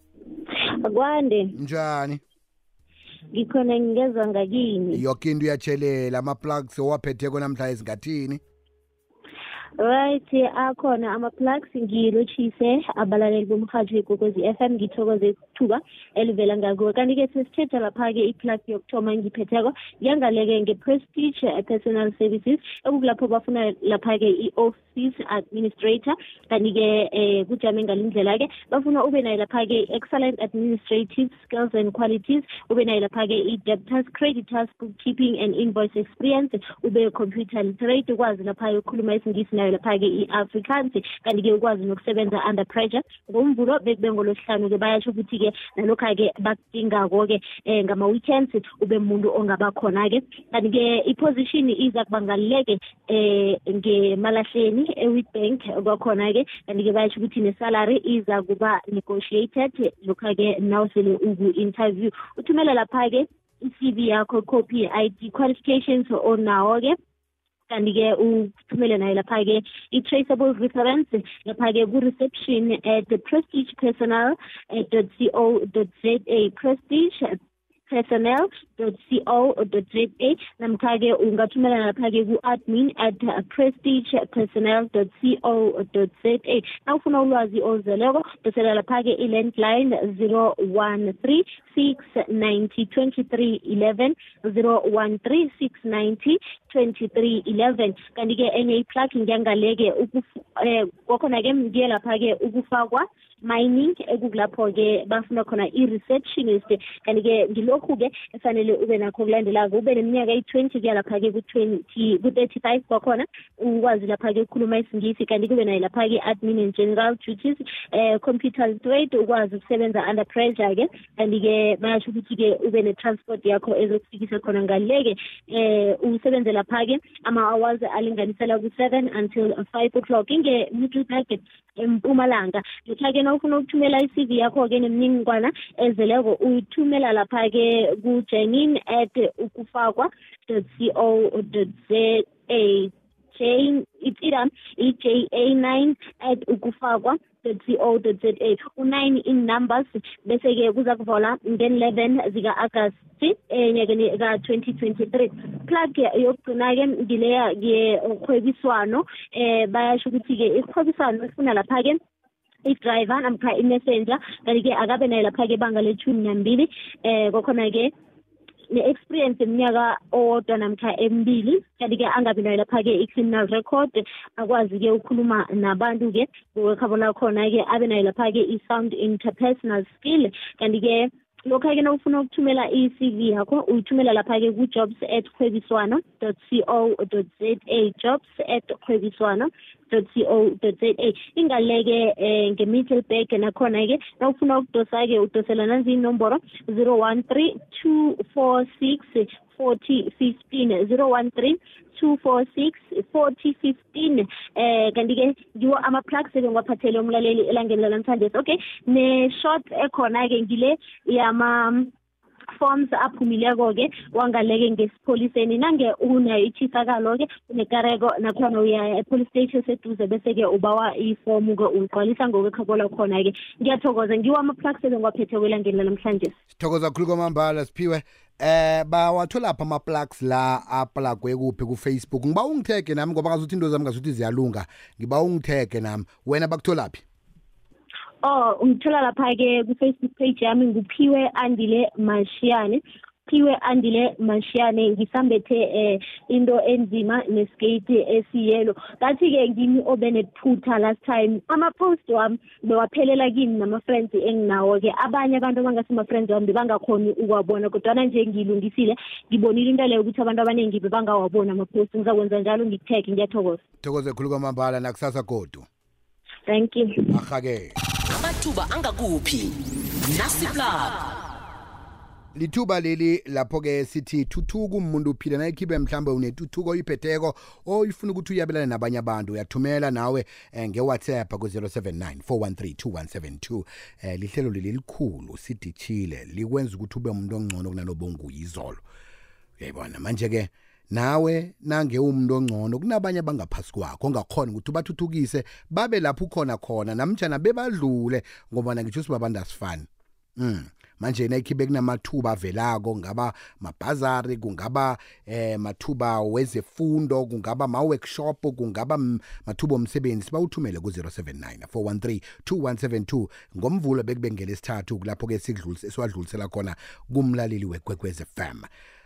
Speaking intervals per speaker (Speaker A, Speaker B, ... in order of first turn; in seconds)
Speaker A: 0.8-1.6, 3.3-5.0, 9.8-67.0, 67.7-77.4, 77.9-162.0, 162.7-167.9, 168.7-211.9, 212.6-226.4, 238.2-263.6, 266.5-267.1
Speaker B: 1.6-2.2, 4.9-8.4, 226.6-237.0, 263.8-265.7, 267.1-267.8, 272.4-288.8, 289.6-318.7
Speaker C: 268.1-271.1